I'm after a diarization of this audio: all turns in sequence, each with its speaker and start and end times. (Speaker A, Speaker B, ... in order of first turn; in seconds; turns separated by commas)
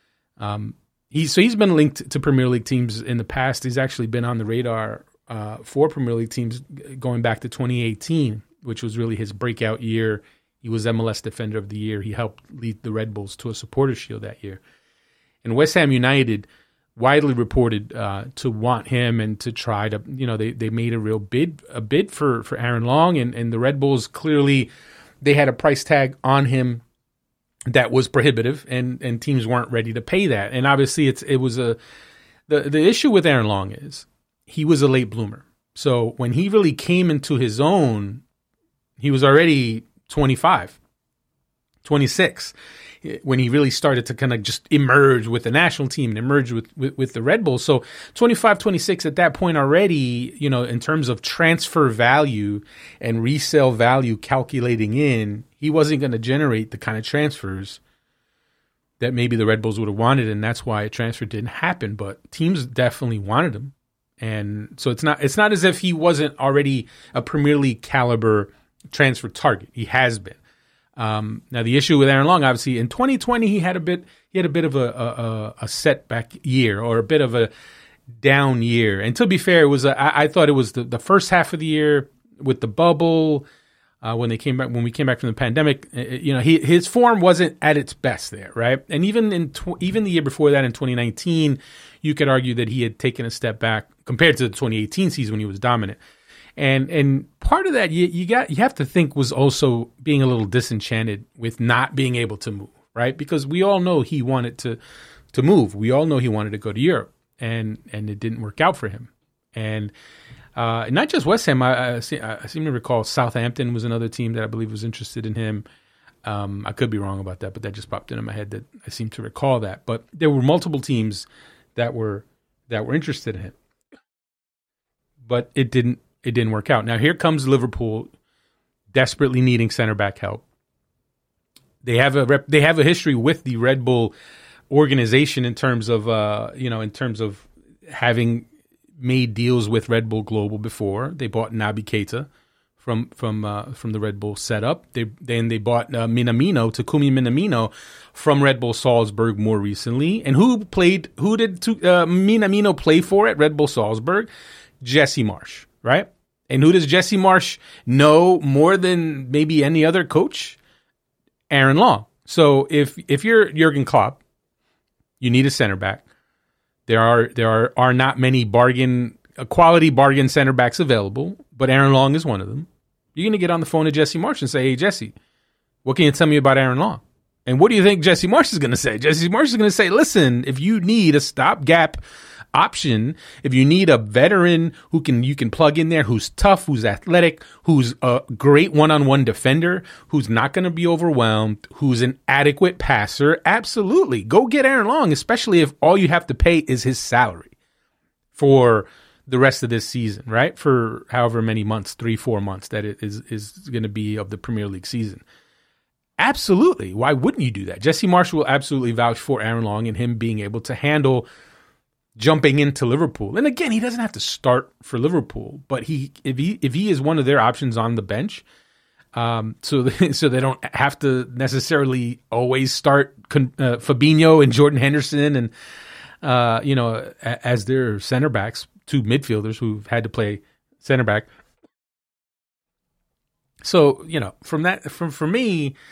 Speaker A: 0.4-14.6, Speaker A: 15.4-24.7, Speaker A: 25.2-26.8, Speaker A: 27.7-31.8, Speaker A: 32.5-38.2, Speaker A: 39.0-40.8, Speaker A: 41.8-57.8, Speaker A: 59.0-70.4, Speaker A: 71.0-77.5, Speaker A: 78.1-83.5, Speaker A: 84.0-96.0, Speaker A: 96.6-104.8, Speaker A: 105.3-109.9, Speaker A: 110.5-115.6, Speaker A: 116.2-123.5, Speaker A: 125.2-128.1, Speaker A: 128.9-130.4, Speaker A: 131.8-134.1, Speaker A: 134.7-138.5, Speaker A: 139.0-142.3, Speaker A: 142.8-154.3, Speaker A: 154.8-160.6, Speaker A: 161.5-164.2, Speaker A: 165.2-166.0, Speaker A: 166.9-175.1, Speaker A: 175.8-182.0, Speaker A: 182.5-197.5, Speaker A: 198.3-205.2, Speaker A: 206.2-211.2, Speaker A: 212.2-218.4, Speaker A: 219.1-225.5, Speaker A: 226.2-231.3, Speaker A: 233.6-235.7